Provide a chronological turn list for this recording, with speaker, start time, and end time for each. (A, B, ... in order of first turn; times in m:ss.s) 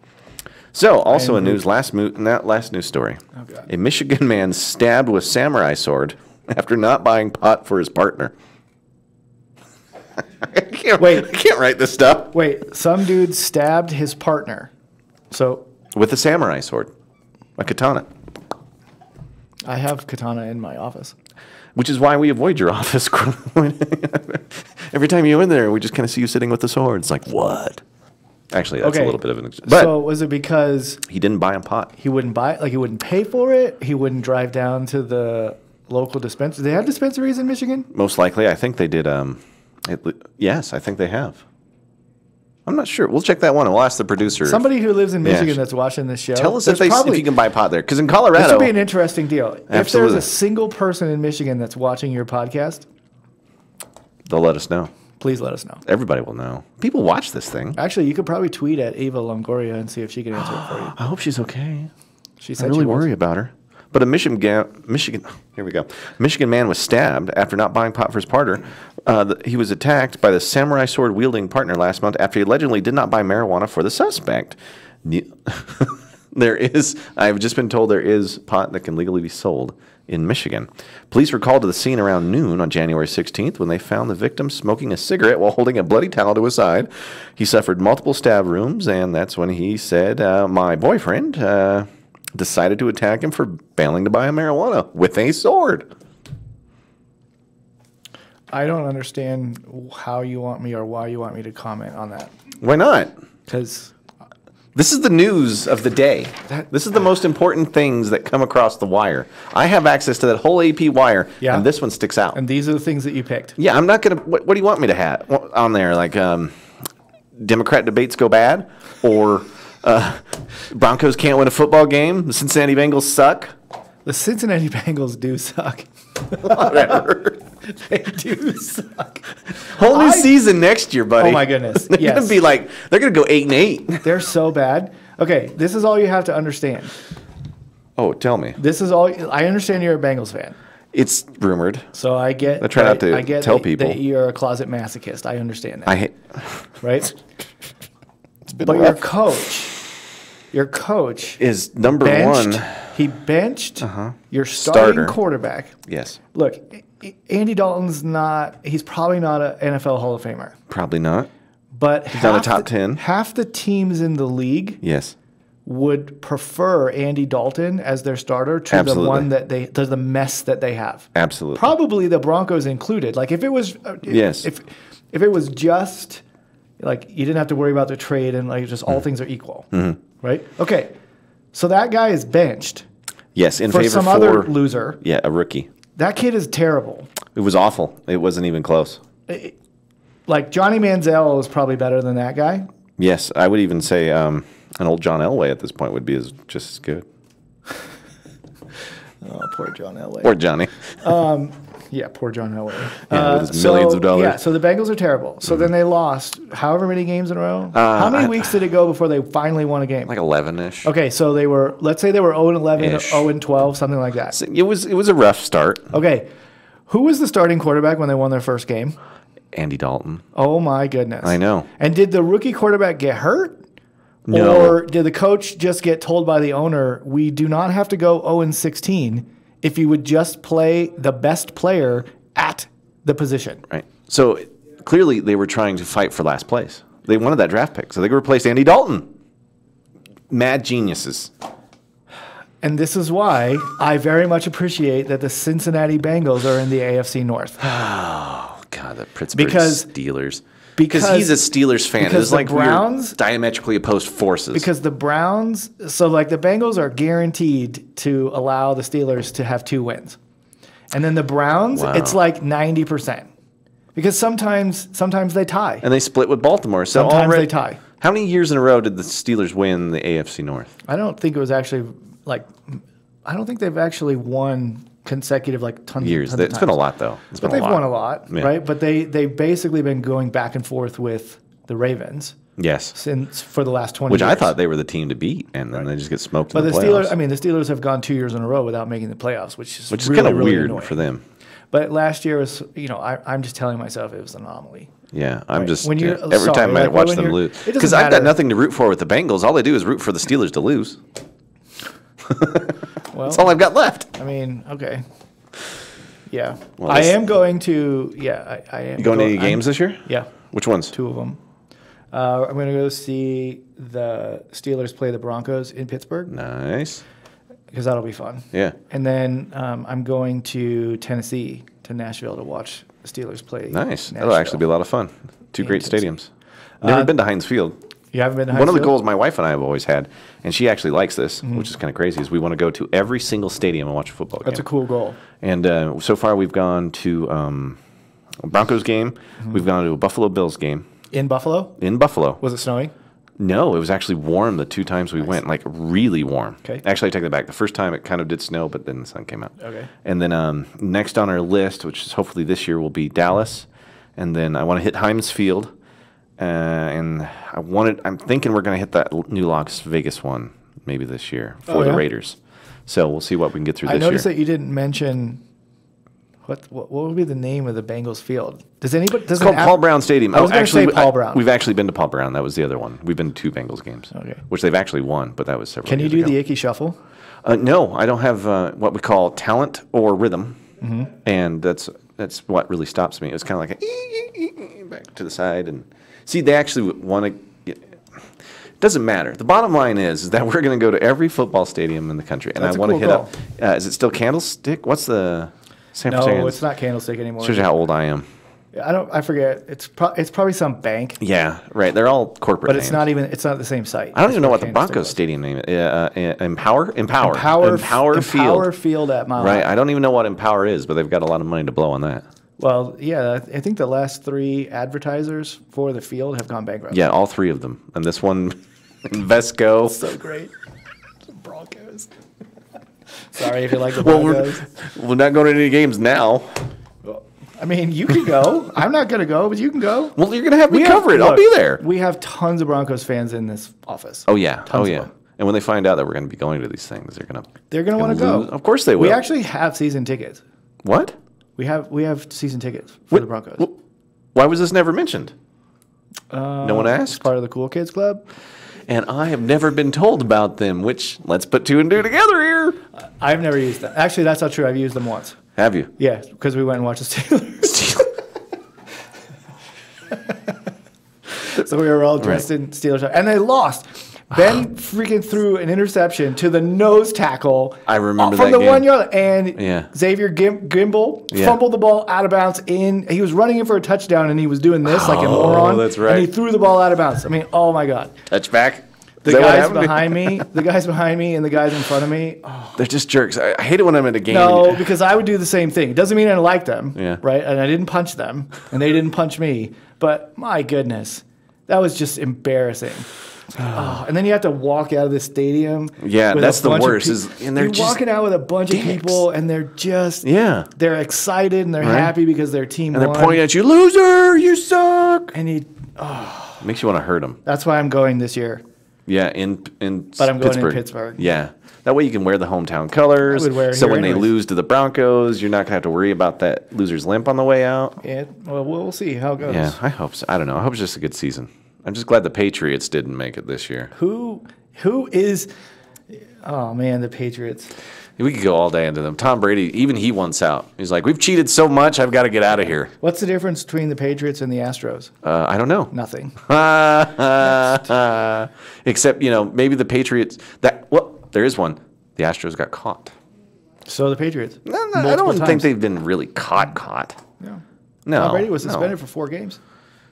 0:00.7-0:08.3 A
0:01.1-0:01.6 B
0:10.4-0:12.3 A
0:11.0-0:11.3 B
0:12.3-0:14.7 B
0:15.3-0:15.7 B
0:15.9-0:16.9 A
0:17.6-0:18.1 A
0:19.6-0:21.1 B
0:21.8-0:27.8 A
0:28.5-0:30.0 A
0:28.8-0:31.0 B
0:31.1-0:31.9 A
0:32.0-0:37.9 B
0:37.9-0:41.4 A
0:42.6-0:44.6 A
0:44.4-0:47.3 B
0:45.2-0:45.6 A
0:46.4-0:48.7 A
0:48.4-0:52.8 B
0:49.7-0:50.3 A
0:54.2-0:54.9 A
0:55.2-0:55.8 B
0:55.8-0:57.8 A
0:57.8-1:01.0 B
1:00.4-1:01.9 A
1:02.4-1:03.1 B
1:02.6-1:35.9 A
1:38.5-1:42.3 B
1:42.6-1:43.1 A
1:43.5-1:43.9 B
1:44.8-1:52.4 A
1:51.4-1:51.7 B
1:52.3-1:53.6 B
1:53.6-1:56.5 A
1:57.4-2:03.5 A
2:04.0-2:07.0 B
2:06.4-2:07.4 A
2:07.6-2:10.3 B
2:09.7-2:14.0 A
2:11.2-2:12.4 B
2:14.0-2:16.9 B
2:18.0-2:18.6 A
2:18.6-2:20.6 B
2:20.9-2:21.9 A
2:21.9-2:26.0 B
2:22.6-2:24.0 A
2:25.9-2:26.7 A
2:26.8-2:27.1 B
2:28.5-2:29.1 A
2:28.6-2:29.8 B
2:30.5-2:31.4 B
2:31.4-2:32.9 A
2:32.0-2:35.7 B
2:33.8-2:35.2 A
2:35.9-2:36.2 A
2:36.3-2:40.6 B
2:40.7-2:41.3 A
2:41.7-2:44.8 B
2:42.1-2:43.0 A
2:44.8-2:45.1 A
2:45.6-2:56.2 B
2:48.7-2:49.3 A
2:51.1-2:51.6 A
2:54.1-2:54.5 A
2:56.8-2:59.7 B
2:59.7-3:00.0 A
3:00.2-3:00.9 B
3:01.5-3:02.8 B
3:03.4-3:05.7 A
3:03.7-3:05.0 B
3:06.0-3:07.1 B
3:07.4-3:09.0 A
3:09.3-3:09.6 B
3:10.3-3:12.7 B
3:13.0-3:17.0 A
3:19.2-3:20.4 B
3:20.2-3:20.9 A
3:21.0-3:30.1 B
3:23.1-3:24.4 A
3:27.7-3:28.6 A
3:30.1-3:30.9 A
3:30.8-3:34.4 B
3:32.8-3:33.3 A
3:34.3-3:35.9 A
3:35.9-3:36.2 B
3:36.9-3:39.0 B
3:39.5-3:40.2 A
3:40.3-3:43.6 B
3:41.2-3:41.7 A
3:44.3-3:44.8 A
3:44.3-3:53.6 B
3:53.7-3:59.1 A
4:00.3-4:01.3 A
4:02.6-4:07.7 B
4:07.6-4:14.7 A
4:09.3-4:09.9 B
4:10.8-4:11.4 B
4:12.0-4:13.2 B
4:14.5-4:20.2 B
4:20.9-4:23.3 B
4:21.8-4:22.2 A
4:24.0-4:25.8 B
4:25.8-4:30.7 A
4:26.9-4:27.8 B
4:30.8-4:36.8 B
4:36.0-4:38.5 A
4:37.4-4:42.4 B
4:42.6-4:43.0 A
4:42.9-4:44.5 B
4:44.1-4:47.1 A
4:46.5-4:51.0 B
4:49.9-4:51.2 A
4:51.7-4:54.9 B
4:55.1-5:01.0 A
4:55.6-4:58.3 B
5:02.2-5:04.1 A
5:03.1-5:03.6 B
5:04.1-5:05.0 B
5:06.3-5:10.3 B
5:06.8-5:07.1 A
5:09.0-5:10.9 A
5:10.9-5:11.4 B
5:12.1-5:16.3 B
5:16.3-5:17.0 A
5:17.7-5:24.6 B
5:23.7-5:26.3 A
5:25.6-5:26.0 B
5:26.8-5:27.1 B
5:26.8-5:27.8 A
5:28.1-5:29.0 B
5:28.5-5:34.6 A
5:31.4-5:31.7 B
5:34.4-5:35.2 B
5:35.4-5:37.8 A
5:38.4-5:40.8 A
5:41.1-5:41.8 B
5:41.8-5:42.4 A
5:42.4-5:42.9 B
5:43.4-5:55.7 A
5:49.6-5:49.9 B
5:56.4-6:04.2 A
6:01.7-6:02.0 B
6:03.8-6:05.4 B
6:06.4-6:11.4 B
6:09.4-6:16.4 A
6:14.1-6:14.4 B
6:15.8-6:17.0 B
6:17.4-6:20.6 A
6:20.8-6:21.1 B
6:21.2-6:28.2 A
6:28.8-6:36.6 A
6:32.6-6:33.3 B
6:36.1-6:37.7 B
6:37.4-6:38.2 A
6:38.7-6:41.2 B
6:41.2-6:43.0 A
6:42.6-6:45.2 B
6:44.1-6:48.7 A
6:47.2-6:49.7 B
6:49.4-6:52.2 A
6:52.6-6:57.0 B
6:56.9-7:00.0 A
6:59.9-7:00.5 B
7:01.3-7:02.1 B
7:03.3-7:04.7 B
7:03.8-7:06.7 A
7:07.0-7:15.1 B
7:10.2-7:11.8 A
7:14.3-7:19.2 A
7:17.7-7:20.4 B
7:20.8-7:21.2 A
7:21.6-7:23.7 B
7:23.1-7:23.7 A
7:24.3-7:25.3 A
7:26.3-7:28.2 B
7:26.6-7:27.2 A
7:28.9-7:32.8 A
7:33.2-7:35.4 B
7:35.6-7:35.9 A
7:36.0-7:38.1 B
7:41.4-7:58.2 B
7:42.2-7:42.4 A
7:47.8-7:48.9 A
7:49.5-7:49.9 A
7:51.3-7:51.6 A
7:54.8-7:56.3 A
7:58.3-8:00.5 A
7:59.2-8:02.8 B
8:02.8-8:04.9 A
8:04.3-8:23.4 B
8:13.6-8:13.9 A
8:16.0-8:18.0 A
8:18.7-8:19.2 A
8:20.2-8:20.7 A
8:21.8-8:22.1 A
8:22.9-8:25.3 A
8:25.3-8:26.6 B
8:26.6-8:27.4 A
8:27.4-8:28.6 B
8:29.1-8:38.0 A
8:30.2-8:31.2 B
8:33.2-8:34.3 B
8:38.0-8:39.8 B
8:39.4-8:43.9 A
8:43.9-8:45.5 B
8:46.1-8:47.7 B
8:48.2-8:52.9 A
8:53.0-8:55.1 B
8:55.2-9:03.2 A
8:55.9-8:56.4 B
9:03.9-9:05.7 B
9:04.7-9:07.2 A
9:08.0-9:08.9 A
9:08.2-9:09.6 B